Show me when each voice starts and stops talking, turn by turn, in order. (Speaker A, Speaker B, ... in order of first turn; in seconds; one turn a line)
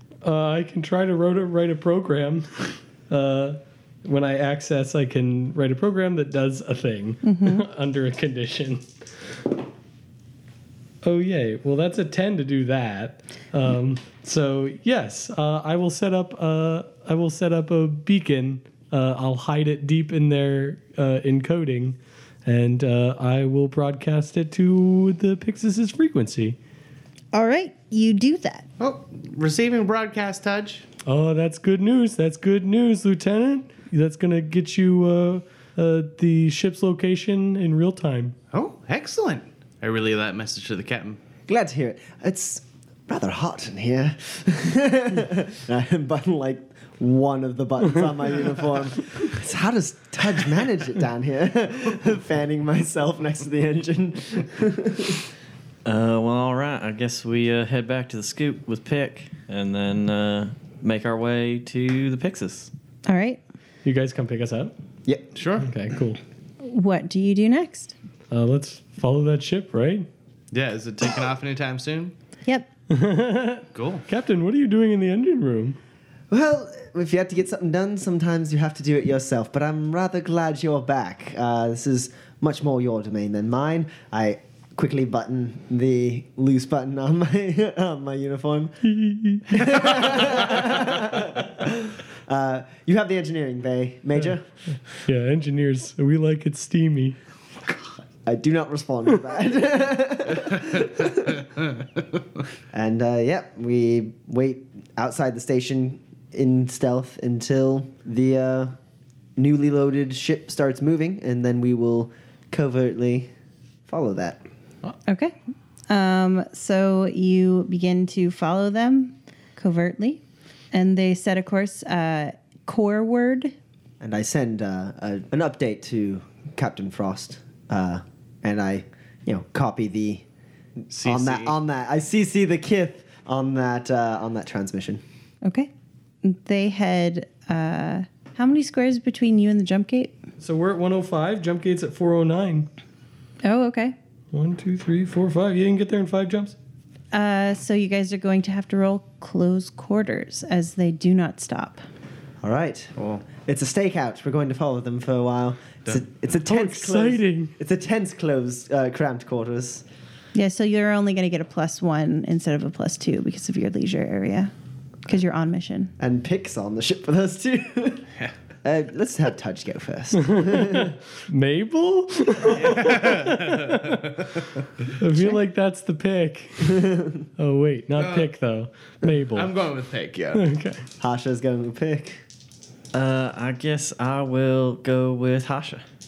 Speaker A: 0.2-8.9
Speaker B: 7.2-7.7
Speaker A: 11.0-26.6
Speaker B: 27.3-28.7
Speaker C: 28.8-30.9
Speaker A: 31.1-38.4
Speaker C: 38.5-41.2
Speaker D: 41.5-55.3
Speaker E: 55.9-62.7
Speaker B: 63.1-63.4
Speaker A: 63.8-64.7
Speaker C: 65.3-65.7
Speaker A: 65.6-66.2
Speaker B: 66.6-67.9
Speaker A: 68.3-70.1
Speaker C: 70.5-72.1
Speaker A: 72.9-75.8
Speaker C: 73.7-74.0
Speaker D: 76.3-88.8
Speaker A: 88.8-89.6
Speaker D: 89.5-94.4
Speaker A: 95.0-97.2
Speaker D: 98.2-101.4
Speaker D: 102.7-108.7
Speaker D: 109.4-113.3
Speaker D: 113.9-114.4
Speaker B: 115.1-115.3
Speaker B: 115.9-120.2
Speaker B: 120.7-123.5
Speaker D: 124.0-130.2
Speaker C: 130.9-131.6
Speaker D: 131.0-135.0
Speaker B: 135.4-135.7
Speaker B: 136.2-140.2
Speaker A: 140.4-142.7
Speaker B: 143.4-143.9
Speaker A: 144.3-146.6
Speaker B: 147.1-151.8
Speaker D: 152.4-159.8
Speaker A: 156.4-157.5
Speaker B: 160.3-164.5
Speaker B: 165.1-165.9
Speaker D: 166.0-168.1
Speaker D: 168.6-171.0
Speaker A: 170.3-174.2
Speaker C: 172.7-173.4
Speaker A: 175.0-179.5
Speaker C: 178.0-178.3
Speaker C: 179.3-180.4
Speaker A: 180.3-180.8
Speaker D: 181.0-182.2
Speaker E: 182.9-185.8